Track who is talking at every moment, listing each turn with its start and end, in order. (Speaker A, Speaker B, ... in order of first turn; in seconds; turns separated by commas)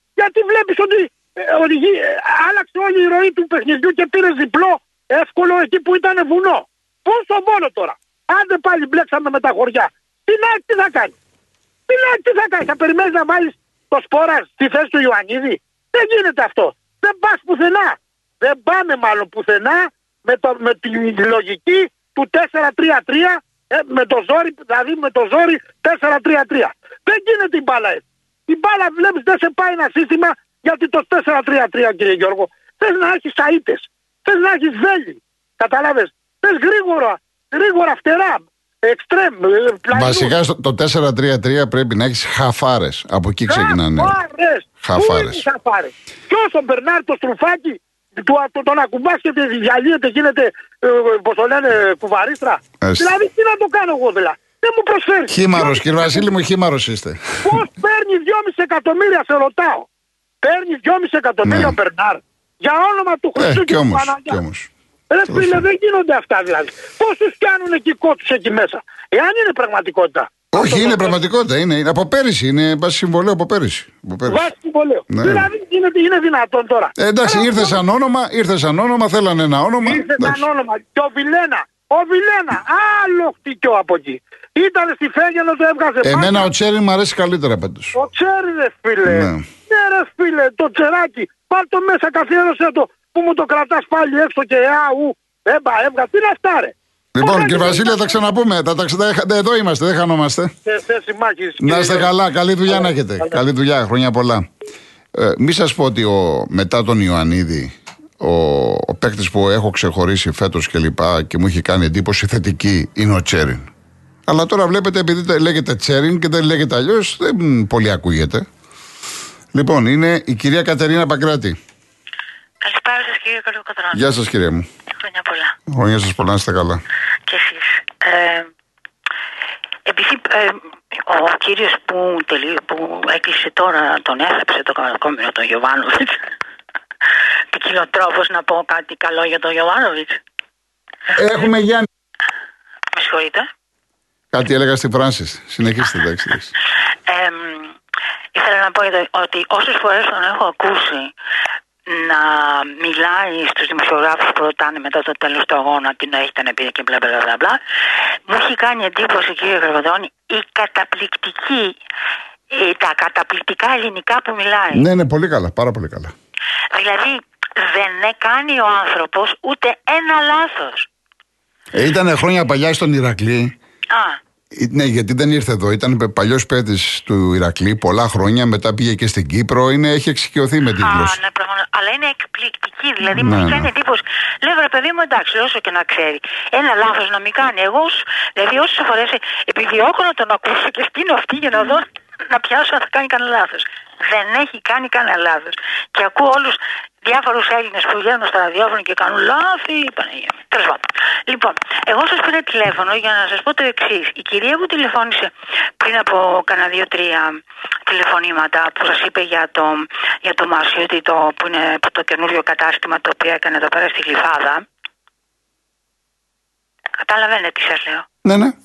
Speaker A: 0.2-11.2, Speaker A: 11.9-40.3, Speaker B: 39.9-44.2, Speaker A: 43.5-56.3, Speaker B: 44.8-45.5, Speaker B: 52.8-53.1, Speaker B: 55.3-57.7, Speaker A: 57.4-59.9, Speaker A: 60.4-64.4, Speaker B: 61.4-61.8, Speaker B: 63.4-64.7, Speaker A: 65.1-71.2, Speaker B: 65.3-65.7, Speaker B: 70.5-74.5, Speaker A: 74.3-77.8, Speaker B: 75.1-75.5, Speaker B: 77.0-80.4, Speaker A: 79.8-86.5, Speaker B: 86.0-88.0, Speaker A: 88.0-98.2, Speaker B: 89.0-89.5, Speaker B: 97.2-100.5, Speaker A: 100.7-102.1, Speaker B: 101.6-104.5, Speaker A: 102.7-103.4, Speaker B: 105.2-113.7, Speaker B: 114.3-118.5, Speaker B: 119.5-121.6, Speaker C: 122.6-124.0, Speaker B: 123.9-124.7, Speaker C: 125.0-125.6, Speaker B: 125.7-126.8, Speaker C: 127.3-128.5, Speaker C: 129.9-136.2, Speaker C: 137.5-140.2, Speaker B: 141.1-141.9, Speaker C: 142.9-143.5, Speaker B: 144.3-146.5, Speaker C: 147.1-147.8, Speaker C: 148.3-151.1, Speaker C: 151.9-157.6, Speaker C: 158.3-161.8, Speaker C: 162.5-164.8, Speaker B: 164.7-166.1, Speaker C: 166.7-170.9, Speaker B: 171.7-173.5, Speaker C: 173.9-174.2, Speaker B: 174.5-181.2, Speaker C: 180.8-214.6, Speaker B: 183.1-183.7, Speaker C: 217.0-218.1, Speaker B: 218.2-218.6